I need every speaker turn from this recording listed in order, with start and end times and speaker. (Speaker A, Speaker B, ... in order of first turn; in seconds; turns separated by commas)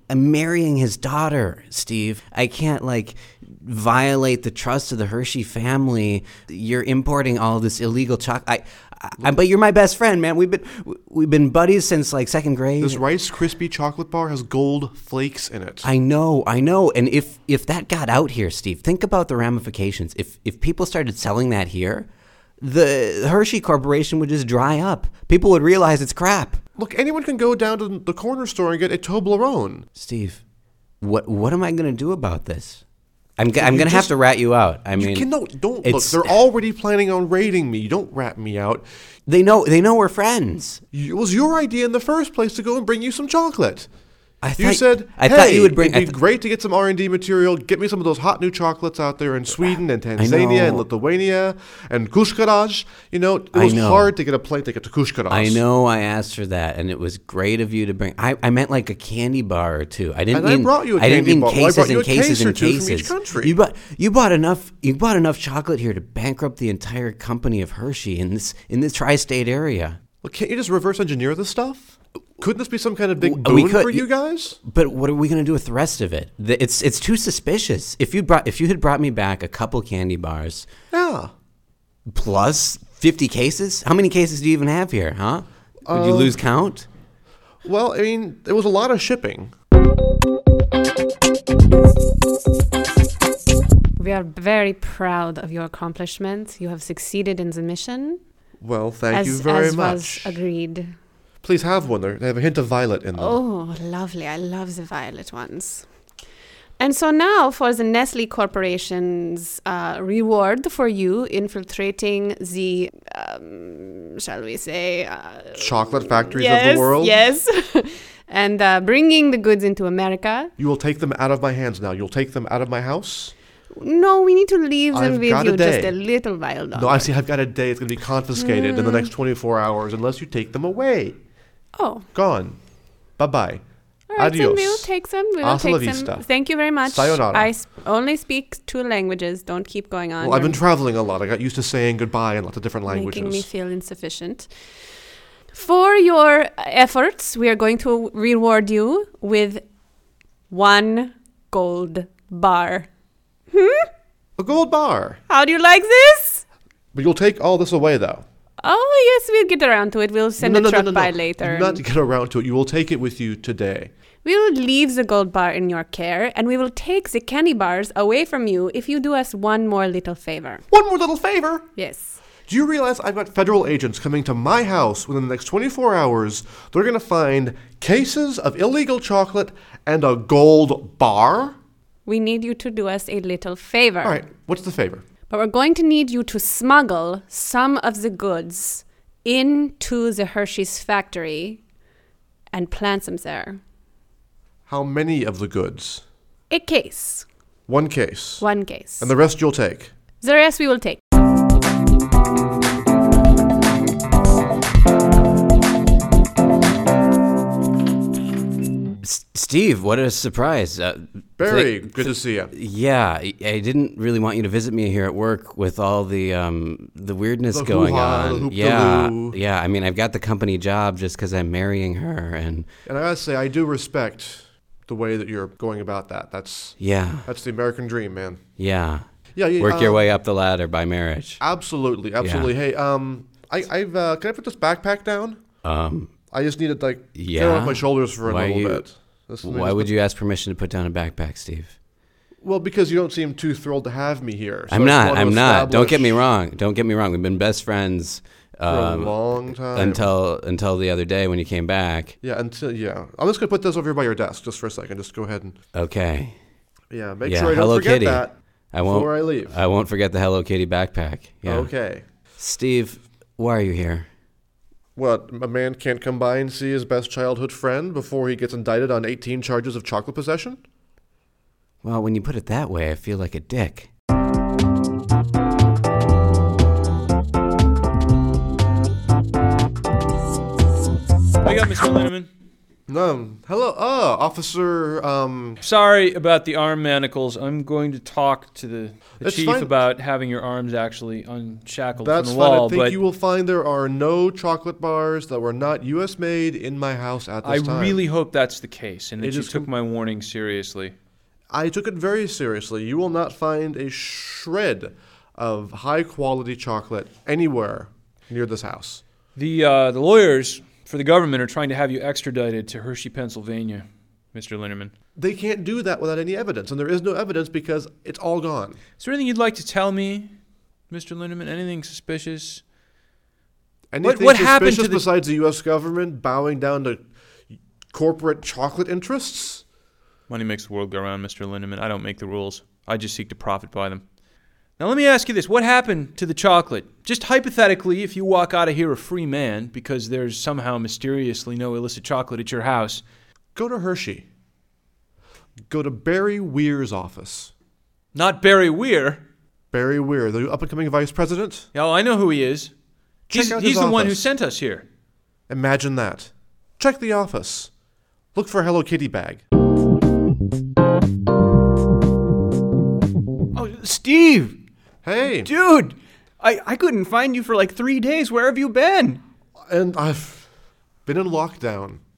Speaker A: 0.1-13.0, Speaker B: 12.8-15.9, Speaker A: 15.8-22.1, Speaker A: 22.6-26.6, Speaker B: 26.8-29.8, Speaker A: 29.9-30.4, Speaker A: 31.0-32.8, Speaker A: 33.4-36.3, Speaker B: 33.5-34.1, Speaker B: 35.0-38.8, Speaker A: 39.3-40.8, Speaker B: 40.9-43.9, Speaker A: 44.4-46.1, Speaker B: 44.6-55.6, Speaker A: 50.2-50.8, Speaker A: 53.5-54.1, Speaker A: 55.3-70.0, Speaker B: 60.3-63.5, Speaker B: 70.2-74.6, Speaker A: 73.2-74.1, Speaker A: 74.7-80.7, Speaker B: 80.9-81.3, Speaker A: 82.1-86.8, Speaker B: 85.8-86.4, Speaker B: 87.6-89.5, Speaker C: 94.0-98.2, Speaker B: 98.6-100.4, Speaker C: 99.1-101.0, Speaker B: 101.4-103.4, Speaker C: 103.2-105.9, Speaker C: 106.8-120.5, Speaker B: 115.5-117.2, Speaker B: 120.6-123.3, Speaker C: 123.7-127.1, Speaker B: 124.9-126.0, Speaker B: 126.7-131.2, Speaker C: 128.3-129.1, Speaker C: 131.7-132.1, Speaker B: 132.1-132.6, Speaker B: 133.2-133.6, Speaker C: 134.1-140.6, Speaker B: 134.2-136.3, Speaker B: 136.8-137.5, Speaker B: 140.2-143.5, Speaker C: 142.9-144.5, Speaker C: 145.5-149.6, Speaker C: 150.5-152.9, Speaker C: 153.5-153.9, Speaker B: 154.4-155.2, Speaker C: 155.3-156.4, Speaker B: 156.9-158.2, Speaker C: 158.6-161.8, Speaker B: 160.4-163.9, Speaker C: 164.2-170.6, Speaker B: 170.7-171.7, Speaker C: 171.8-172.2, Speaker B: 172.5-181.6, Speaker C: 182.1-184.2, Speaker B: 184.0-185.0, Speaker C: 185.3-191.6, Speaker C: 192.5-193.6, Speaker B: 194.7-196.0, Speaker C: 196.5-197.2, Speaker B: 197.7-198.5, Speaker C: 198.4-199.1, Speaker B: 199.0-199.9, Speaker C: 200.2-201.0, Speaker A: 209.0-222.7, Speaker B: 211.4-212.5, Speaker B: 217.5-219.4, Speaker B: 222.8-228.4, Speaker A: 226.8-227.3, Speaker A: 228.6-229.0, Speaker B: 229.3-230.1, Speaker A: 229.6-231.4, Speaker B: 231.4-235.4, Speaker A: 232.2-232.5, Speaker A: 235.6-236.1, Speaker B: 236.3-239.9, Speaker A: 237.1-238.8, Speaker A: 239.4-241.7, Speaker B: 242.4-246.2, Speaker A: 244.7-252.1, Speaker B: 248.7-250.1, Speaker B: 252.2-255.6, Speaker A: 255.7-256.3, Speaker B: 256.9-259.5, Speaker A: 257.2-261.7, Speaker B: 261.4-262.0, Speaker A: 262.4-264.1, Speaker B: 264.9-270.6, Speaker A: 271.8-273.9, Speaker D: 281.4-282.3, Speaker B: 282.9-285.6, Speaker D: 285.6-293.0, Speaker B: 289.2-289.8, Speaker B: 292.0-298.0, Speaker D: 297.4-300.9, Speaker B: 299.2-299.7, Speaker B: 301.5-309.0, Speaker D: 309.4-314.9, Speaker B: 315.1-318.8, Speaker D: 319.0-320.3, Speaker D: 320.9-322.6, Speaker B: 323.9-327.0, Speaker D: 324.0-325.1, Speaker B: 327.9-329.6, Speaker D: 330.3-334.0, Speaker D: 334.8-343.0, Speaker B: 343.5-344.2, Speaker B: 345.7-347.5, Speaker D: 348.1-349.2, Speaker B: 349.7-351.7, Speaker D: 351.7-352.7, Speaker B: 353.3-354.2, Speaker D: 353.3-354.9, Speaker B: 355.5-357.7, Speaker B: 358.3-359.4, Speaker E: 363.5-364.6, Speaker B: 365.0-365.5, Speaker E: 365.3-369.2, Speaker B: 369.7-370.5, Speaker B: 371.1-372.0